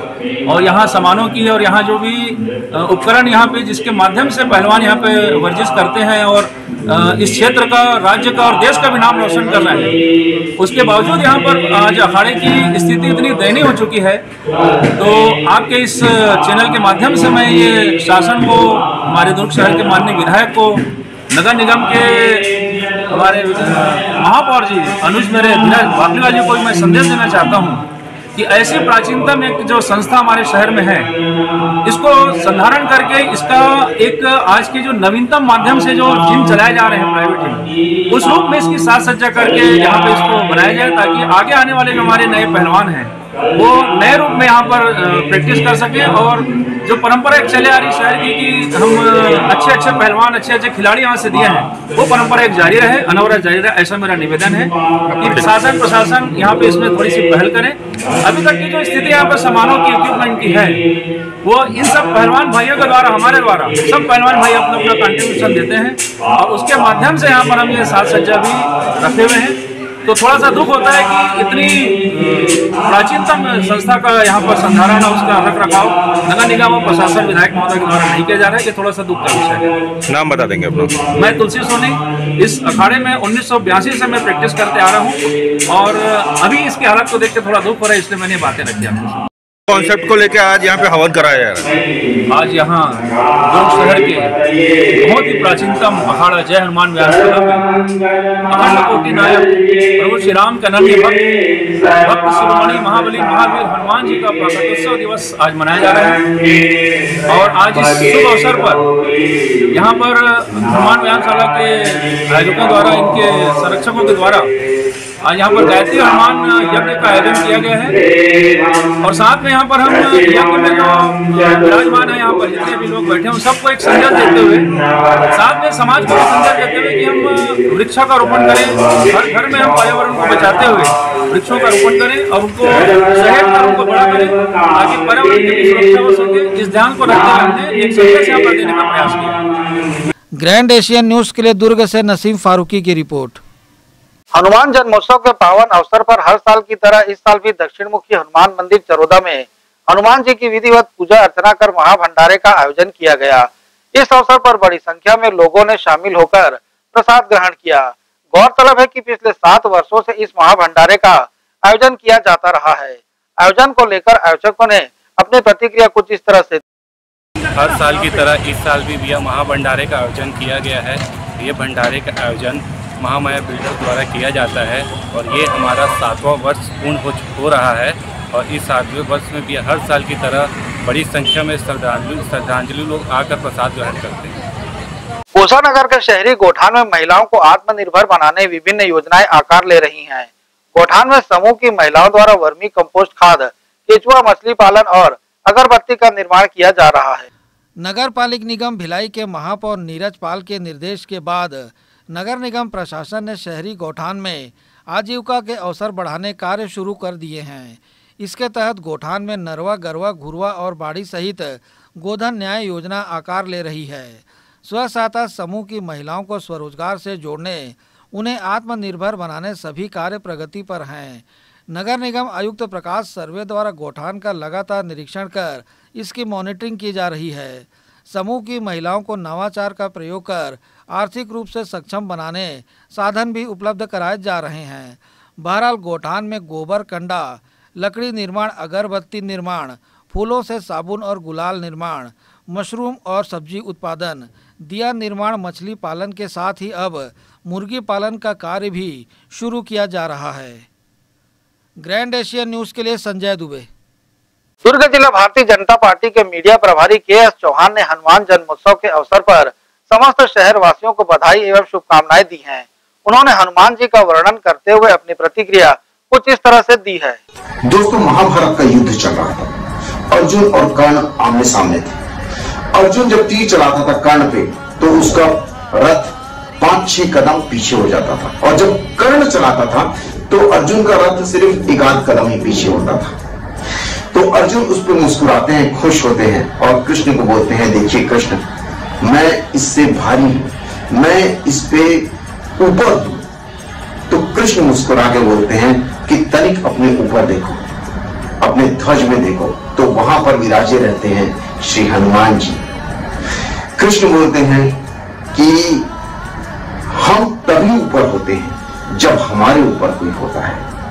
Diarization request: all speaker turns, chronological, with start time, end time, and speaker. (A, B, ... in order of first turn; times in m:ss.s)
0:00.5-0:10.0 A
0:10.6-0:14.2 A
0:15.0-0:22.5 A
0:23.1-0:31.1 A
0:31.9-1:00.8 A
0:55.2-0:55.5 B
1:01.4-1:19.7 A
1:20.1-1:21.0 B
1:21.2-1:29.2 A
1:29.7-1:31.7 B
1:32.3-1:34.3 A
1:35.0-1:37.7 A
1:38.5-1:41.2 A
1:42.0-1:46.3 A
1:47.3-1:48.9 A
1:49.7-1:54.5 A
1:55.2-1:58.0 A
1:59.0-2:04.7 A
2:05.3-2:19.4 A
2:20.4-2:23.4 C
2:24.3-2:46.6 D
2:47.6-2:48.3 A
2:48.3-3:04.3 E
3:05.4-3:17.3 D
3:17.8-4:10.7 C
4:11.8-4:13.7 C
4:14.6-4:27.2 D
4:27.6-4:29.5 F
4:30.1-4:32.0 F
4:32.7-4:43.2 F
4:44.1-4:48.4 F
4:49.0-4:52.0 F
4:52.6-4:53.2 F
4:54.1-4:57.6 F
4:58.4-5:02.6 F
5:03.8-5:04.7 F
5:05.3-5:05.9 F
5:06.9-5:10.6 F